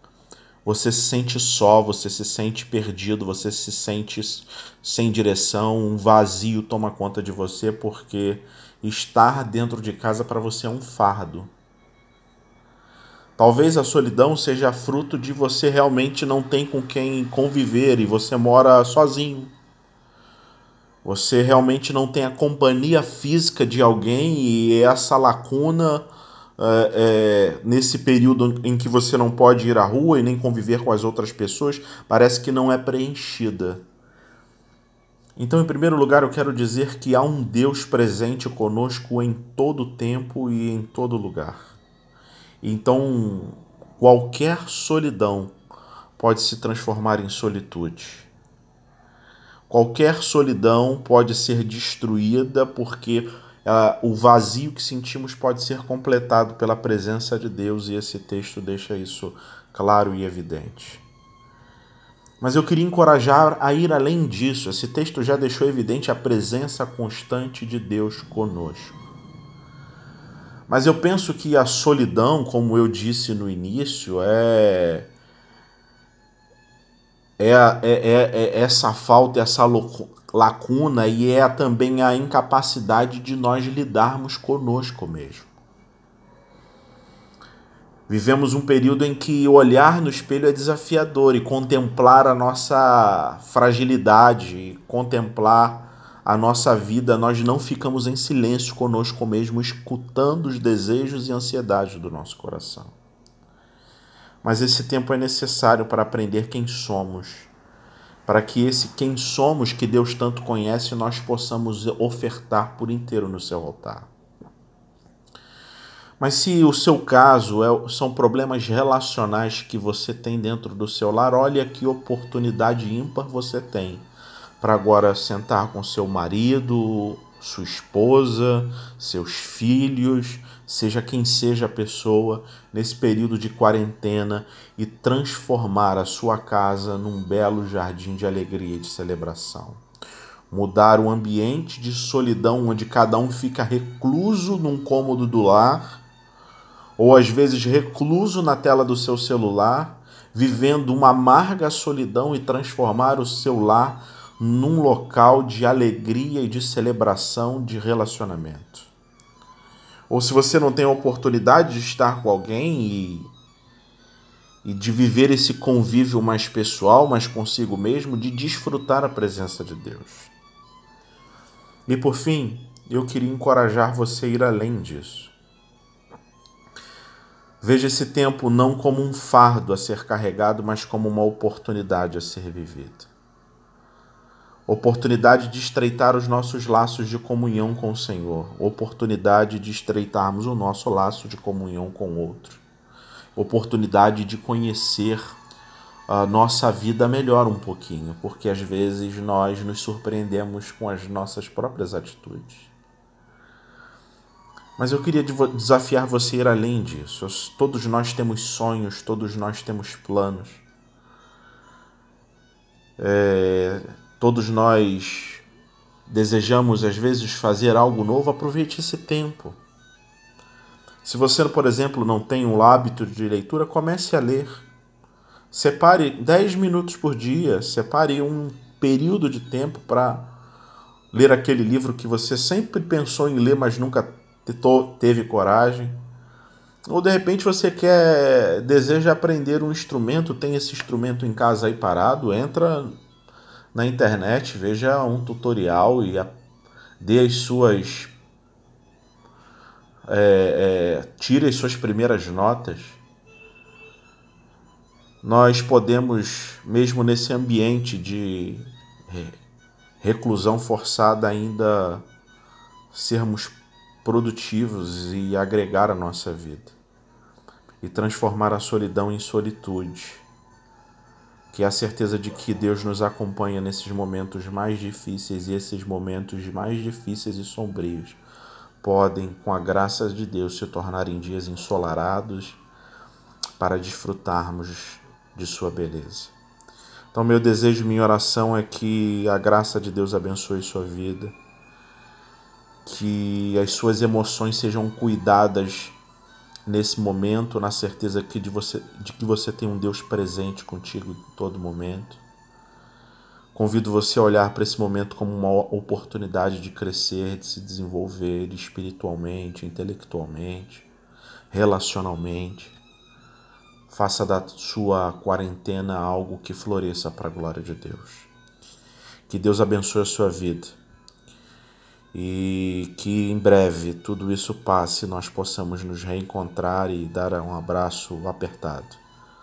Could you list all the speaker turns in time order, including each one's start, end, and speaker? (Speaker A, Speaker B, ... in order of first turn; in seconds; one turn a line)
Speaker A: 0.7-11.5
Speaker A: 13.4-19.5
Speaker A: 21.1-26.1
Speaker A: 26.6-33.8
Speaker A: 35.4-41.8
Speaker A: 42.6-45.5
Speaker A: 46.2-48.3
Speaker A: 49.7-61.0
Speaker A: 62.4-69.0
Speaker A: 70.7-75.1
Speaker A: 77.4-85.5
Speaker A: 88.1-102.9
Speaker A: 104.4-107.5
Speaker A: 108.3-114.1
Speaker A: 116.2-124.1
Speaker A: 124.6-139.8
Speaker A: 140.5-146.0
Speaker A: 147.0-158.9
Speaker A: 160.1-163.3
Speaker A: 164.6-170.3
Speaker A: 171.9-175.3
Speaker A: 177.6-183.1
Speaker A: 184.7-192.6
Speaker A: 193.4-195.4
Speaker A: 196.1-202.7
Speaker A: 204.8-210.6
Speaker A: 213.0-215.4
Speaker A: 216.1-219.6
Speaker A: 221.0-224.7
Speaker A: 225.5-230.3
Speaker A: 231.1-236.0
Speaker A: 236.9-242.9
Speaker A: 243.7-246.3
Speaker A: 247.0-248.1
Speaker A: 250.1-253.0
Speaker A: 255.2-259.4
Speaker A: 260.0-262.1
Speaker A: 262.9-266.8
Speaker A: 267.8-270.2
Speaker A: 271.5-278.2
Speaker A: 278.8-282.6
Speaker A: 283.6-286.4
Speaker A: 287.1-291.4
Speaker A: 292.9-296.0
Speaker A: 296.7-302.2
Speaker A: 303.5-310.9
Speaker A: 311.5-312.8
Speaker A: 313.9-318.3
Speaker A: 319.3-320.8
Speaker A: 322.1-329.0